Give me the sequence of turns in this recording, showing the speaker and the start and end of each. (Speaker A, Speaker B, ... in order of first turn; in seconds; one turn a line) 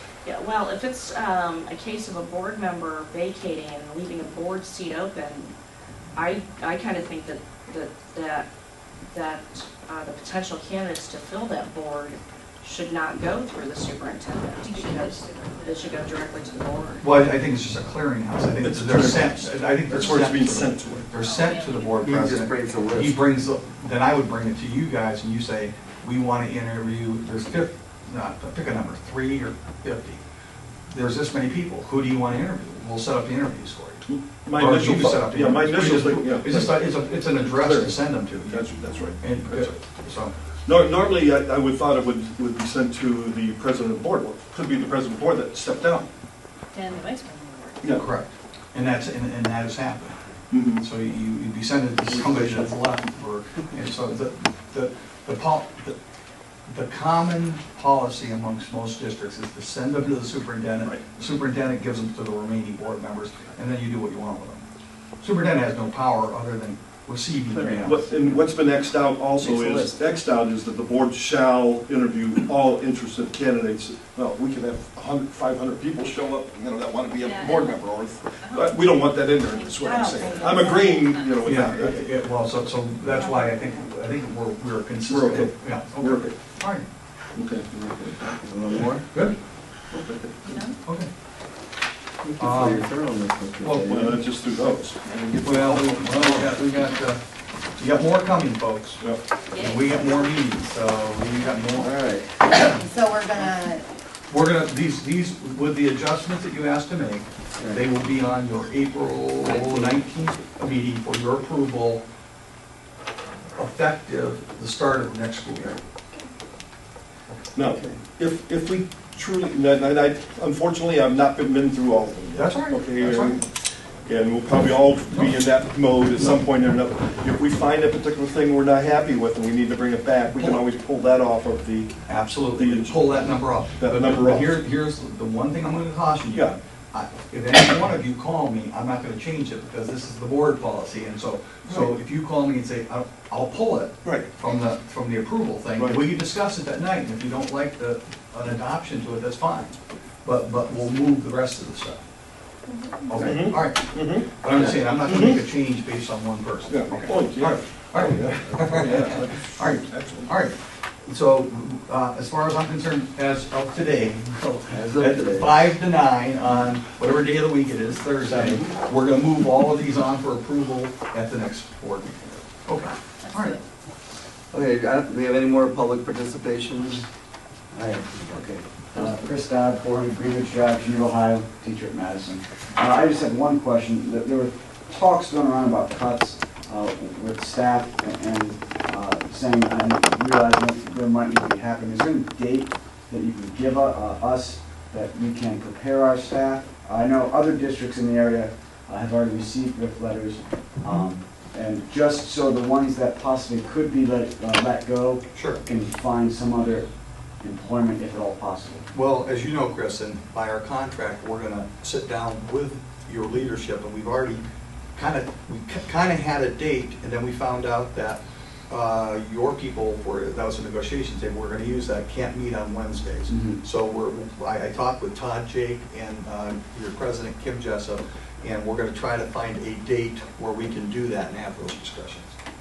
Speaker A: 0.2-5.5
Speaker A: 6.1-8.5
Speaker A: 9.1-17.1
Speaker B: 14.6-16.1
Speaker C: 17.0-30.2
Speaker D: 18.6-21.1
Speaker B: 21.2-22.1
Speaker E: 21.9-23.2
Speaker C: 30.9-38.7
Speaker D: 34.1-39.7
Speaker C: 39.2-40.3
Speaker D: 40.6-46.1
Speaker B: 46.7-47.9
Speaker C: 47.9-50.1
Speaker D: 50.5-50.8
Speaker C: 50.8-56.0
Speaker C: 56.7-64.6
Speaker C: 65.2-68.0
Speaker D: 67.7-82.1
Speaker E: 69.4-69.9
Speaker B: 77.2-77.8
Speaker B: 78.4-81.5
Speaker E: 79.8-80.8
Speaker C: 81.4-86.9
Speaker D: 85.1-86.3
Speaker D: 87.3-88.1
Speaker E: 87.6-89.0
Speaker D: 89.9-90.4
Speaker B: 90.4-90.8
Speaker C: 90.8-91.1
Speaker E: 92.2-94.3
Speaker C: 92.4-92.9
Speaker C: 93.6-94.0
Speaker D: 93.9-95.7
Speaker E: 95.1-96.4
Speaker C: 95.4-97.2
Speaker C: 97.8-102.0
Speaker B: 99.5-100.4
Speaker E: 101.8-103.8
Speaker C: 104.3-112.0
Speaker E: 109.4-110.0
Speaker C: 113.5-115.8
Speaker C: 117.3-117.9
Speaker D: 117.5-132.0
Speaker C: 122.3-123.4
Speaker C: 125.1-125.4
Speaker C: 130.3-130.6
Speaker C: 132.1-152.0
Speaker D: 132.5-134.6
Speaker D: 141.6-141.9
Speaker D: 144.0-144.3
Speaker D: 145.8-146.0
Speaker C: 153.1-173.6
Speaker D: 153.2-154.4
Speaker E: 154.6-154.9
Speaker D: 155.0-155.4
Speaker D: 156.7-160.3
Speaker E: 164.7-165.6
Speaker D: 168.3-168.7
Speaker B: 173.2-173.6
Speaker E: 174.5-177.1
Speaker E: 177.8-179.1
Speaker F: 177.8-206.8
Speaker C: 205.3-205.6
Speaker F: 207.4-208.9
Speaker C: 208.9-214.4
Speaker C: 214.9-232.3
Speaker F: 223.3-223.6